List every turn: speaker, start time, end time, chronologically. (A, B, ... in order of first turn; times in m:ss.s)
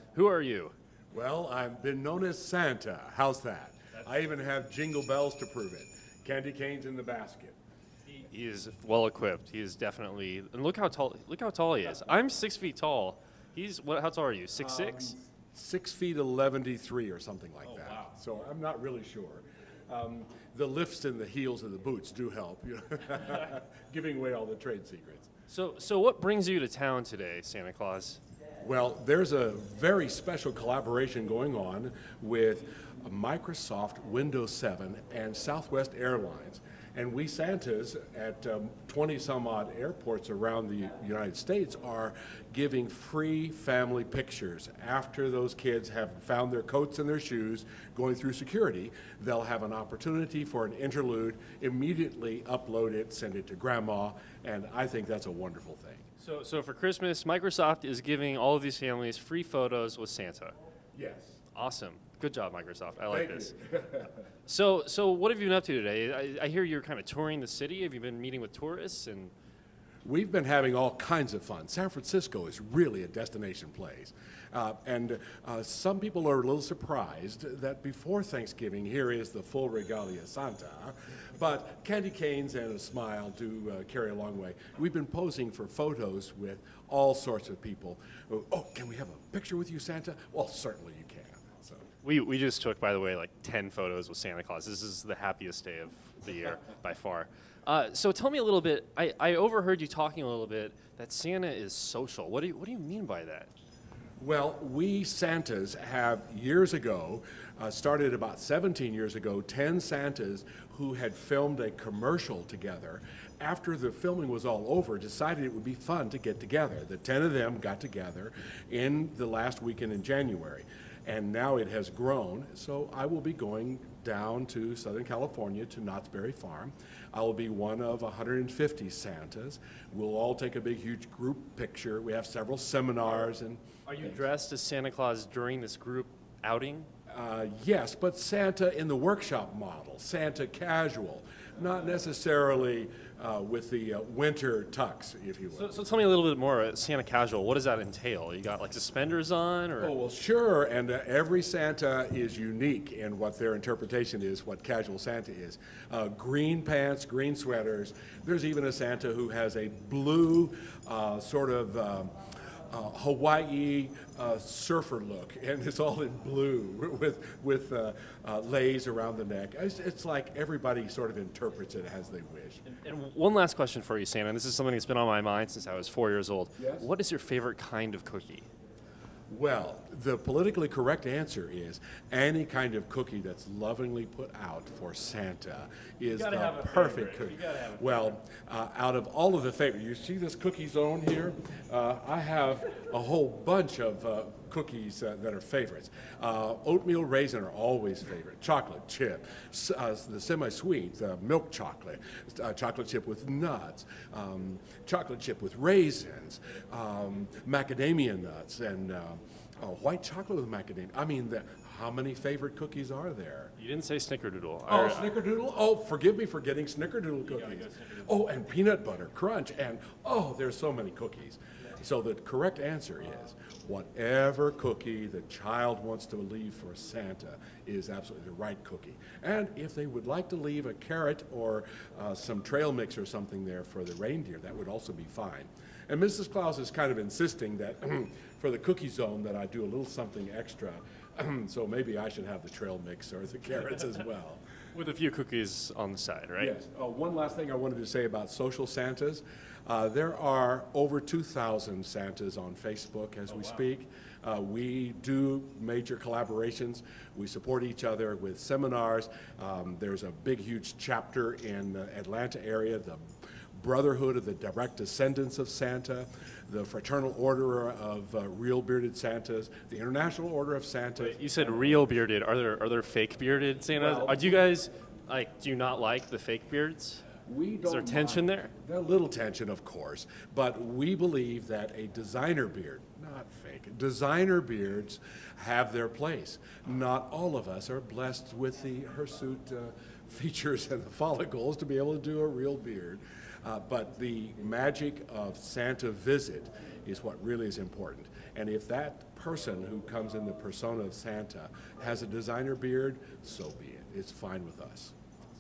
0:00.1-0:00.7 A
0:01.1-0:07.6 B
0:08.1-0:15.2 A
0:14.6-0:25.3 B
0:17.7-0:18.1 A
0:25.5-0:28.2 A
0:28.6-0:56.0 B
0:56.2-1:00.6 A
1:00.9-1:01.4 B
1:01.5-1:03.6 A
1:03.1-1:04.1 B
1:04.5-1:09.3 A
1:10.0-1:31.8 B
1:32.0-1:43.5 A
1:44.2-2:14.2 B
2:13.9-2:16.9 A
2:17.1-2:25.8 B
2:25.6-2:29.9 A
2:29.8-2:52.6 B
2:52.7-2:58.5 A
2:56.6-2:56.9 B
2:59.3-3:33.5 B
3:06.1-3:08.1 A
3:33.6-3:35.1 A
3:34.7-4:04.4 B
3:37.3-3:38.1 A
4:04.7-4:06.5 A
4:06.4-4:23.0 B
4:13.3-4:13.6 A
4:23.6-4:31.5 B
4:31.0-4:37.1 A
4:33.7-4:34.5 B
4:37.3-5:04.9 B
4:37.6-4:38.5 A